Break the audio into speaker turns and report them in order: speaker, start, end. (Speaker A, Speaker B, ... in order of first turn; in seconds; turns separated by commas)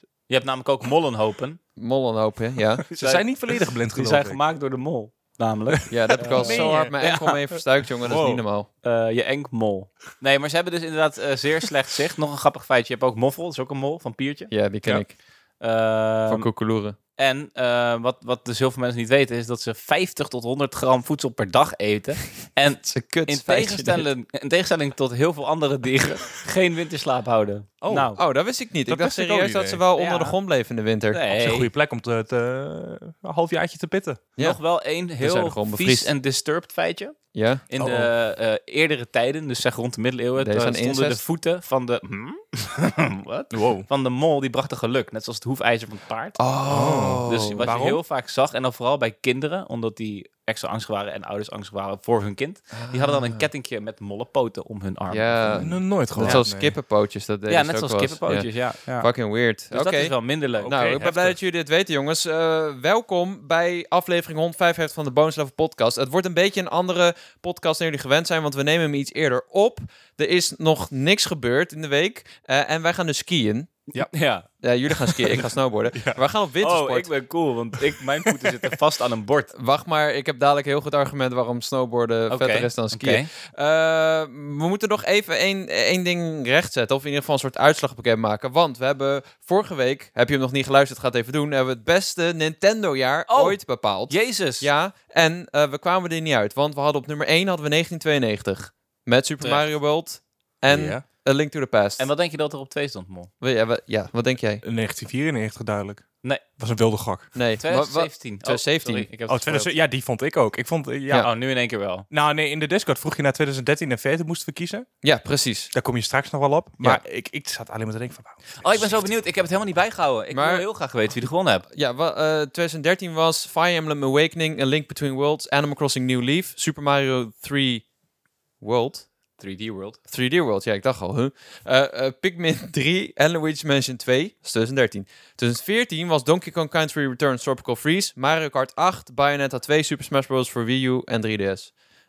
Speaker A: 0.3-1.6, Speaker B: 1.8-2.9, Speaker C: 2.9-4.4, Speaker A: 2.9-7.4, Speaker B: 5.9-8.7, Speaker C: 5.9-8.4, Speaker A: 8.8-14.5, Speaker B: 14.5-15.2, Speaker A: 15.6-16.5, Speaker B: 16.3-17.0, Speaker A: 17.2-28.2, Speaker B: 22.8-24.1, Speaker C: 27.8-28.1, Speaker B: 28.2-31.2, Speaker C: 28.9-29.8, Speaker A: 29.9-30.4, Speaker A: 31.1-31.7, Speaker C: 31.3-34.3, Speaker A: 34.4-37.2, Speaker B: 35.2-36.1, Speaker B: 37.3-37.7, Speaker A: 37.7-46.4, Speaker C: 37.8-38.1, Speaker B: 40.4-41.2, Speaker C: 43.5-43.9, Speaker B: 46.4-47.7, Speaker C: 46.7-48.0, Speaker A: 47.2-56.5, Speaker B: 52.9-53.4, Speaker B: 55.1-73.8, Speaker C: 55.5-56.8, Speaker A: 57.5-59.1, Speaker A: 59.7-61.1, Speaker C: 60.6-61.4, Speaker A: 73.9-74.5, Speaker B: 74.6-77.1, Speaker C: 75.9-76.2, Speaker A: 76.6-79.5, Speaker B: 79.5-102.1, Speaker A: 82.3-83.3, Speaker A: 93.3-94.7, Speaker A: 99.4-99.7, Speaker C: 100.7-101.0, Speaker A: 102.0-103.3, Speaker B: 103.4-104.6, Speaker C: 104.6-107.4, Speaker B: 107.3-109.1, Speaker A: 107.6-109.7, Speaker C: 109.3-111.3, Speaker A: 111.2-112.1, Speaker C: 112.1-114.9, Speaker B: 115.0-115.7, Speaker C: 115.7-119.1, Speaker A: 118.6-121.7, Speaker B: 120.3-120.7, Speaker B: 121.7-127.9, Speaker B: 128.6-129.1, Speaker A: 129.4-130.0, Speaker B: 130.1-141.7